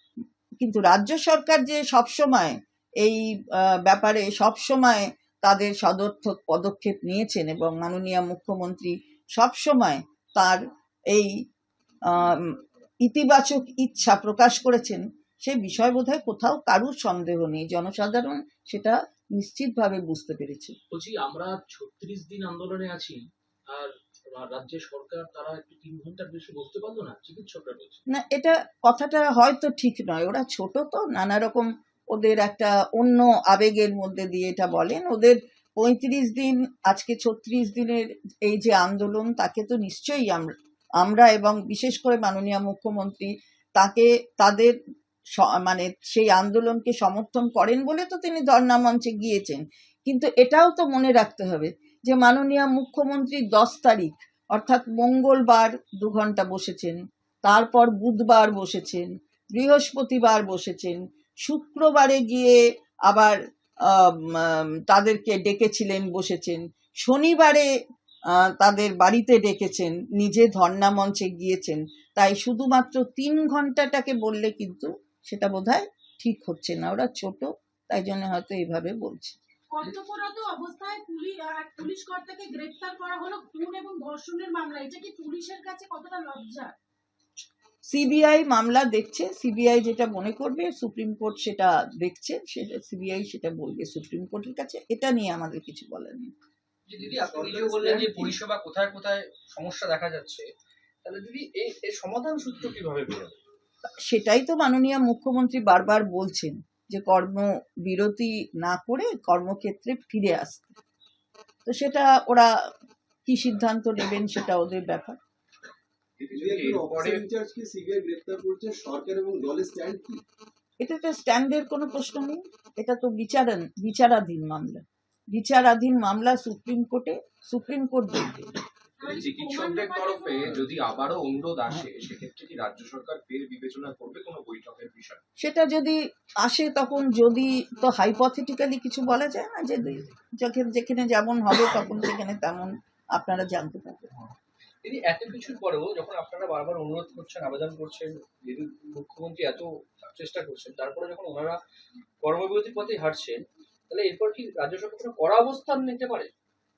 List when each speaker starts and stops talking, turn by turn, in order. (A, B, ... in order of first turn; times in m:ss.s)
0:00.6-0:11.3 A
0:12.1-0:20.7 A
0:20.9-0:28.0 B
0:28.1-0:40.5 A
0:41.0-0:44.7 A
0:45.4-1:03.4 A
1:03.9-1:07.7 A
1:08.6-1:19.4 A
1:19.7-1:26.7 C
1:27.9-1:36.3 A
1:37.2-1:40.4 D
1:37.5-1:38.1 B
1:37.9-1:38.3 A
1:41.0-1:43.3 D
1:44.0-1:50.8 A
1:51.6-1:52.5 A
1:53.3-1:55.2 A
1:56.2-1:57.2 D
1:56.3-2:00.2 E
2:00.8-2:08.5 A
2:09.0-2:10.5 C
2:09.0-2:15.2 D
2:15.4-2:24.1 A
2:24.8-2:31.6 D
2:32.2-2:33.4 D
2:33.9-2:36.2 D